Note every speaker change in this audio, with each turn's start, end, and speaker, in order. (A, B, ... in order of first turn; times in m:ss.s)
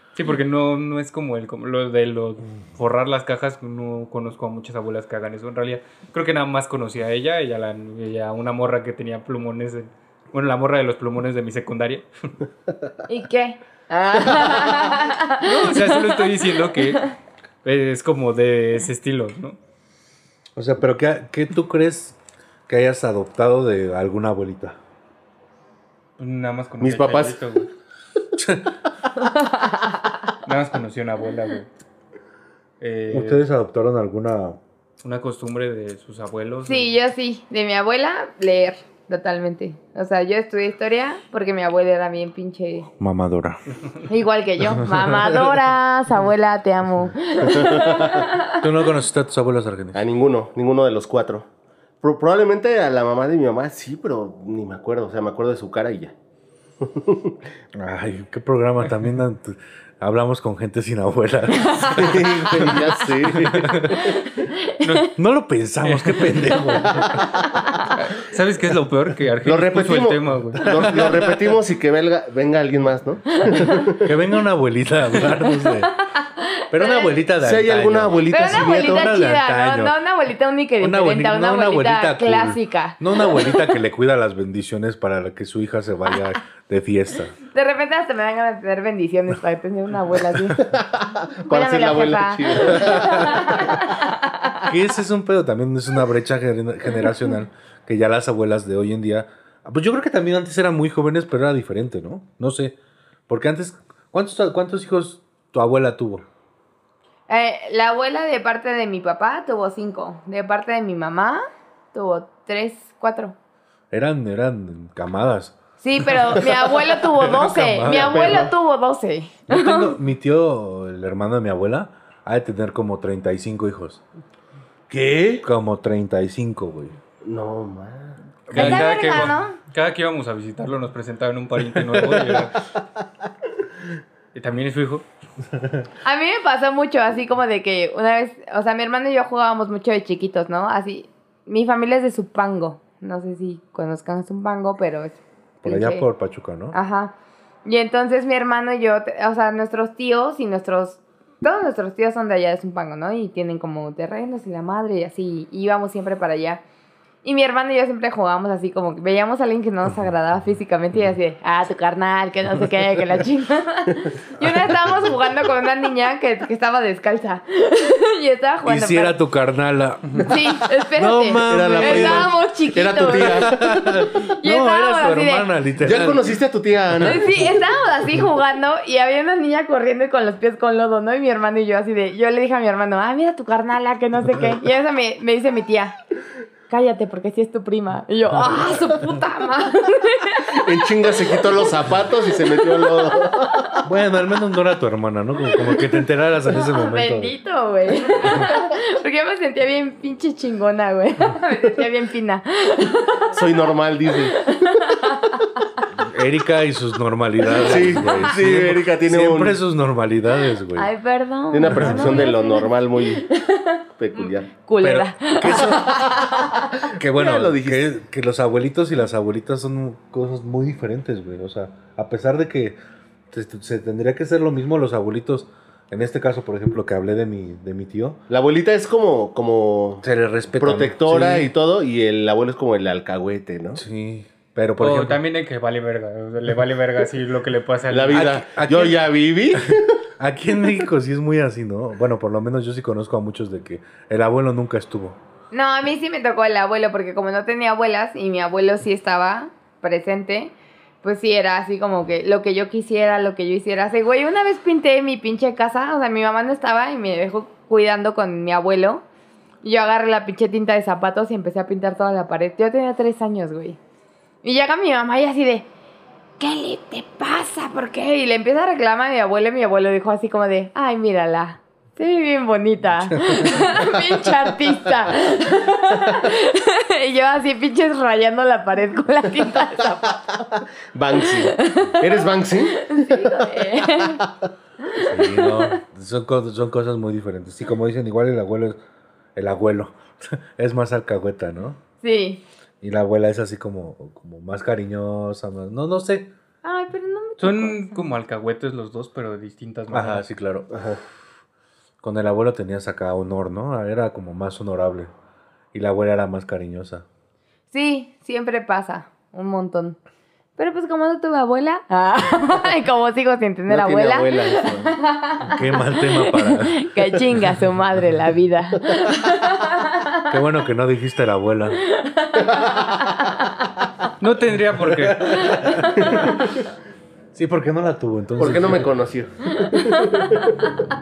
0:00.2-0:12.0 A
0:13.1-0:16.2 B
0:15.4-0:19.6 A
0:20.6-0:22.2 C
0:22.7-0:24.8 C
0:26.2-0:27.7 A
0:26.8-0:27.4 D
0:28.4-0:28.6 C
0:30.4-0:31.7 A
0:32.8-0:33.4 A
0:33.1-0:34.6 C
0:35.0-0:36.9 A
0:36.6-0:42.9 B
0:43.0-0:43.6 C
0:44.1-0:48.6 B
0:44.7-0:45.6 C
0:47.4-0:48.3 D
0:48.6-0:50.0 C
0:49.9-0:51.5 D
0:52.0-0:56.1 D
0:56.8-0:57.4 D
0:57.7-1:03.9 C
1:01.6-1:02.0 B
1:01.9-1:04.3 D
1:04.0-1:05.0 B
1:04.8-1:05.1 A
1:05.2-1:07.2 C
1:05.8-1:06.8 A
1:07.9-1:11.0 A
1:09.4-1:14.1 D
1:10.6-1:11.4 C
1:14.0-1:15.9 C
1:15.6-1:17.1 B
1:16.7-1:20.0 C
1:17.4-1:19.1 D
1:18.3-1:23.6 B
1:20.8-1:27.3 C
1:27.5-1:30.6 B
1:30.7-1:33.7 D
1:31.5-1:34.7 B
1:32.8-1:33.1 C
1:34.6-1:42.8 C
1:43.3-1:46.2 C
1:47.3-1:53.3 B
1:53.9-1:58.5 C
1:55.8-1:59.9 B
1:57.8-1:58.5 D
1:59.5-2:04.0 C
2:04.9-2:05.4 D
2:05.4-2:07.0 C
2:07.2-2:08.2 D
2:08.5-2:12.6 A
2:08.5-2:09.6 B
2:08.5-2:08.9 C
2:11.8-2:12.5 C
2:14.3-2:15.0 A
2:16.0-2:26.1 B
2:25.6-2:26.8 C
2:26.7-2:27.1 B
2:27.6-2:36.6 B
2:37.2-2:49.1 B
2:48.6-2:52.3 C
2:50.2-2:55.5 B
2:51.4-2:53.6 D
2:52.9-2:56.4 C
2:55.8-2:57.3 D
2:57.0-3:06.0 B
3:06.7-3:10.6 B
3:08.3-3:09.2 C
3:10.5-3:13.7 D
3:13.4-3:13.8 B
3:13.8-3:17.3 C
3:16.5-3:23.4 B
3:23.3-3:24.5 D
3:24.3-3:25.8 B
3:26.0-3:30.9 C
3:27.5-3:29.6 D
3:30.7-3:35.9 B
3:31.5-3:33.2 D
3:31.7-3:32.3 C
3:34.0-3:34.5 D
3:34.8-3:36.0 C
3:35.5-3:37.8 D
3:36.9-3:42.8 C
3:43.3-3:48.2 C
3:48.3-3:50.0 D
3:50.0-3:51.5 C
3:50.5-3:53.8 D
3:53.7-3:55.2 C
3:54.8-3:58.3 A
3:57.9-4:00.0 D
3:58.1-3:59.0 C
3:59.5-4:05.2 C
4:05.5-4:19.0 B
4:19.6-4:23.8 B
4:24.4-4:25.7 B
4:26.4-4:40.6 B
4:33.2-4:33.8 C
4:40.9-4:44.3 D
4:41.4-4:42.1 B
4:42.7-4:44.2 B
4:44.8-4:45.8 B
4:45.0-4:48.8 C
4:49.4-4:51.8 C
4:52.0-4:52.4 B
4:52.8-4:56.3 C
4:56.6-4:58.1 B
4:57.4-5:00.2 A
4:59.9-5:00.7 C
5:00.7-5:01.0 D
5:02.0-5:05.1 C
5:05.7-5:07.0 C
5:07.7-5:10.0 B
5:10.6-5:20.3 B
5:13.7-5:15.0 D
5:15.4-5:17.5 C
5:20.3-5:21.8 C
5:21.9-5:23.5 B
5:22.4-5:23.0 D
5:24.2-5:25.4 A
5:24.8-5:26.3 C
5:25.5-5:26.4 B
5:26.0-5:26.4 D
5:27.3-5:28.9 C
5:28.4-5:30.6 D
5:29.6-5:30.4 B